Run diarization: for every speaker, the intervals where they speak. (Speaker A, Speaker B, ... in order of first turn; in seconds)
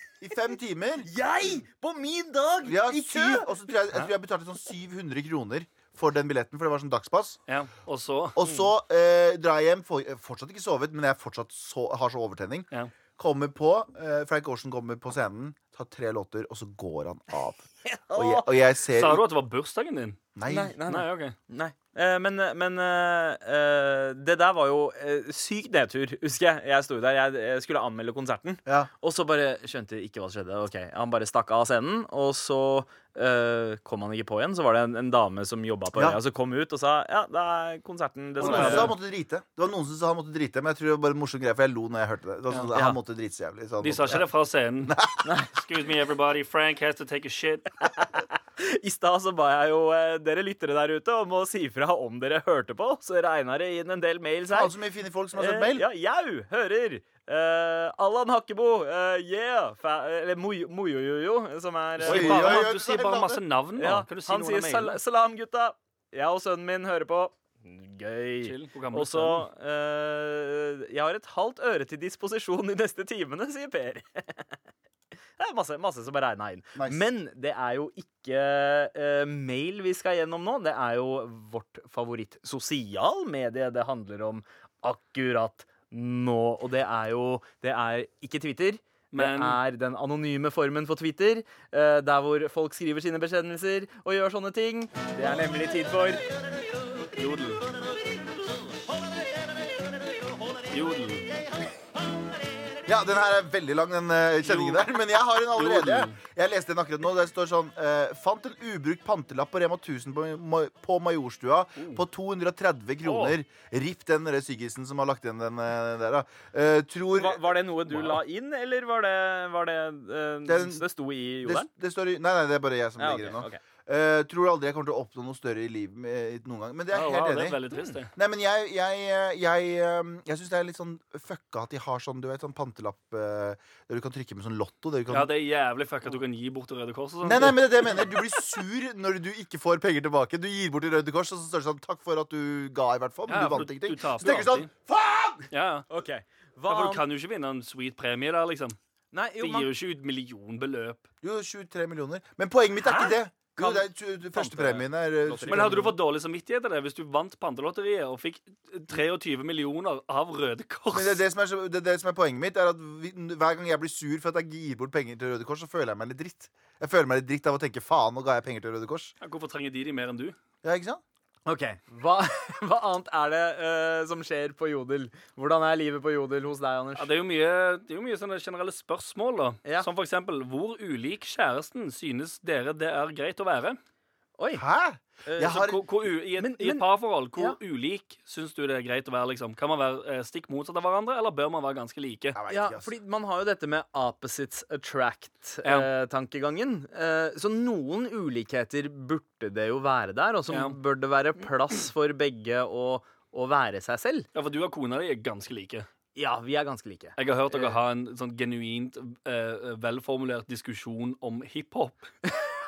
Speaker A: 0.2-1.1, 2.6-7.4, 8.3-19.2, 20.4-20.8, 38.4-44.3, 44.8-45.2, 54.5-55.9, 62.0-63.4, 76.7-77.0, 102.8-117.6, 120.5-120.9, 121.4-135.3, 137.2-145.5, 151.2-155.9, 160.9-169.1, 170.6-171.0, 184.6-185.8, 192.3-192.9
Speaker B: 1.0-3.5, 8.4-8.7, 17.8-18.5, 20.5-38.9, 42.7-43.0, 47.8-54.7, 55.3-62.6, 63.8-74.5, 75.4-96.2, 117.1-121.7, 123.0-123.6, 145.9-147.0, 149.1-149.7, 152.8-155.8, 171.4-177.1, 184.4-184.6, 185.2-185.6, 186.4-186.8, 192.5-204.3, 206.1-207.7
Speaker C: 7.5-8.4, 18.9-20.2, 20.9-21.3, 38.4-38.9, 43.8-44.9, 45.5-48.0, 62.0-65.0, 68.4-69.5, 89.1-89.6, 97.1-97.7, 100.7-101.3, 104.4-104.8, 105.5-106.2, 113.0-113.3, 117.9-118.2, 126.9-128.1, 135.1-138.0, 143.3-144.7, 145.5-145.8, 146.7-148.8, 149.4-151.0, 155.5-161.2, 169.2-170.3, 176.9-183.8, 185.4-192.4, 195.6-195.9, 200.5-200.8, 204.3-205.9, 207.2-212.1